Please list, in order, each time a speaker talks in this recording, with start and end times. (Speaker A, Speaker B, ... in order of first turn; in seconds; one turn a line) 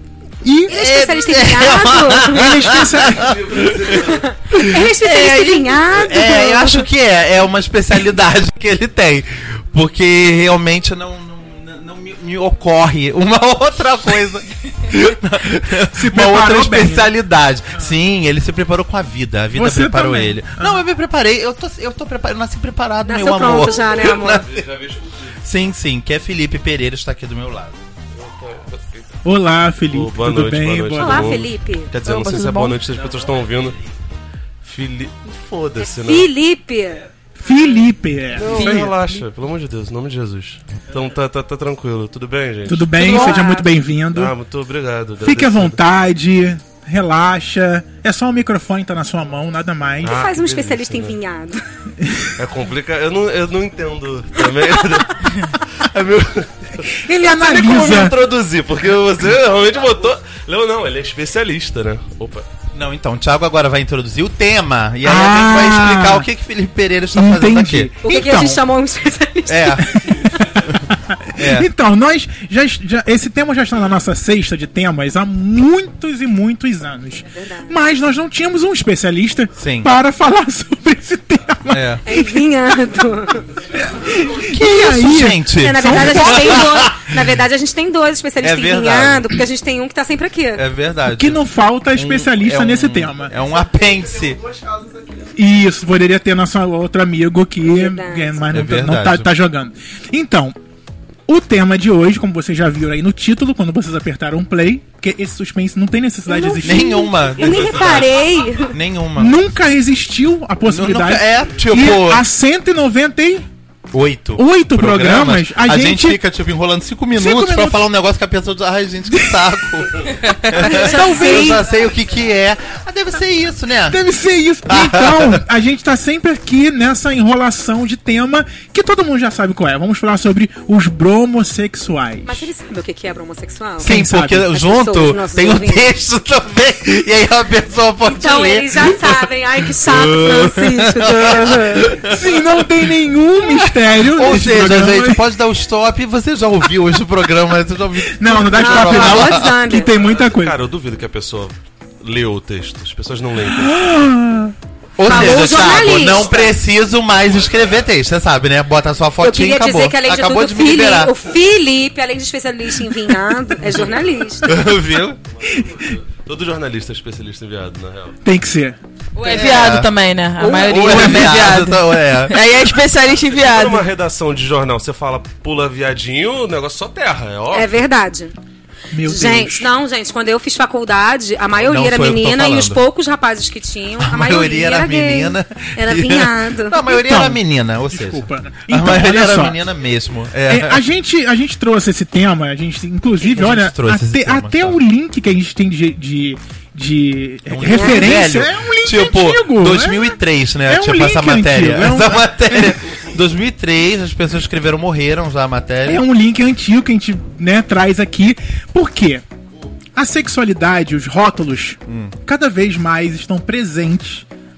Speaker A: 0.4-0.7
Speaker B: 0.7-2.8
Speaker C: 0.7-24.9
Speaker A: 2.3-3.4
Speaker D: 3.2-4.1
Speaker B: 3.9-6.9
Speaker A: 15.9-17.1
Speaker A: 19.5-20.8
Speaker B: 23.0-24.4
Speaker C: 25.4-27.8
Speaker D: 28.1-29.1
Speaker A: 29.2-31.4
Speaker D: 29.9-33.8
Speaker B: 31.0-31.9
Speaker E: 32.0-32.8
Speaker D: 34.6-36.3
Speaker B: 35.9-37.0
Speaker A: 37.4-38.9
Speaker E: 38.4-38.7
Speaker D: 38.4-43.1
Speaker A: 42.7-44.3
Speaker B: 43.0-43.7
Speaker D: 44.1-45.8
Speaker A: 45.2-50.1
Speaker D: 50.0-51.2
Speaker B: 50.0-51.6
Speaker A: 52.0-52.3
Speaker D: 52.4-62.5
Speaker A: 56.8-58.2
Speaker C: 62.7-67.9
Speaker A: 65.0-66.3
Speaker A: 67.1-68.6
Speaker B: 68.0-69.9
Speaker C: 69.5-70.8
Speaker A: 69.8-82.2
Speaker C: 71.3-71.7
Speaker B: 77.3-77.7
Speaker C: 79.5-79.9
Speaker C: 81.7-82.0
Speaker B: 82.0-83.5
Speaker A: 83.7-86.7
Speaker C: 84.3-87.1
Speaker B: 85.6-90.7
Speaker C: 88.4-89.4
Speaker C: 90.5-91.4
Speaker A: 91.1-93.3
Speaker C: 91.9-94.5
Speaker A: 95.3-100.5
Speaker B: 97.6-98.4
Speaker C: 98.5-99.3
Speaker A: 101.3-107.1
Speaker B: 106.3-108.8
Speaker C: 106.6-109.4
Speaker A: 109.2-113.5
Speaker C: 110.7-112.2
Speaker C: 113.9-124.0
Speaker A: 114.3-116.2
Speaker A: 117.1-117.8
Speaker A: 120.5-121.6
Speaker B: 120.7-121.6
Speaker A: 123.9-132.5
Speaker C: 124.7-125.4
Speaker B: 132.2-133.9
Speaker C: 133.8-142.7
Speaker A: 133.8-134.5
Speaker B: 134.4-135.8
Speaker B: 138.1-142.0
Speaker A: 142.0-145.2
Speaker C: 144.1-149.5
Speaker A: 148.1-150.6
Speaker B: 148.6-149.9
Speaker D: 150.0-153.8
Speaker A: 153.5-154.5
Speaker C: 155.0-161.1
Speaker B: 155.0-156.5
Speaker B: 159.2-164.6
Speaker C: 164.4-165.2
Speaker A: 165.5-165.9
Speaker D: 165.8-168.1
Speaker A: 168.2-168.8
Speaker E: 169.1-173.8
Speaker C: 169.2-169.9
Speaker B: 170.4-171.4
Speaker C: 170.6-172.4
Speaker D: 173.2-177.7
Speaker B: 177.5-178.3
Speaker A: 178.9-179.7
Speaker B: 179.0-186.9
Speaker C: 181.6-182.8
Speaker C: 184.0-190.8
Speaker A: 187.0-189.6
Speaker A: 190.5-200.2
Speaker C: 193.2-194.8
Speaker C: 197.4-206.0
Speaker B: 197.7-198.2
Speaker A: 200.7-202.7
Speaker A: 205.8-209.2
Speaker A: 209.9-214.2
Speaker C: 211.9-212.1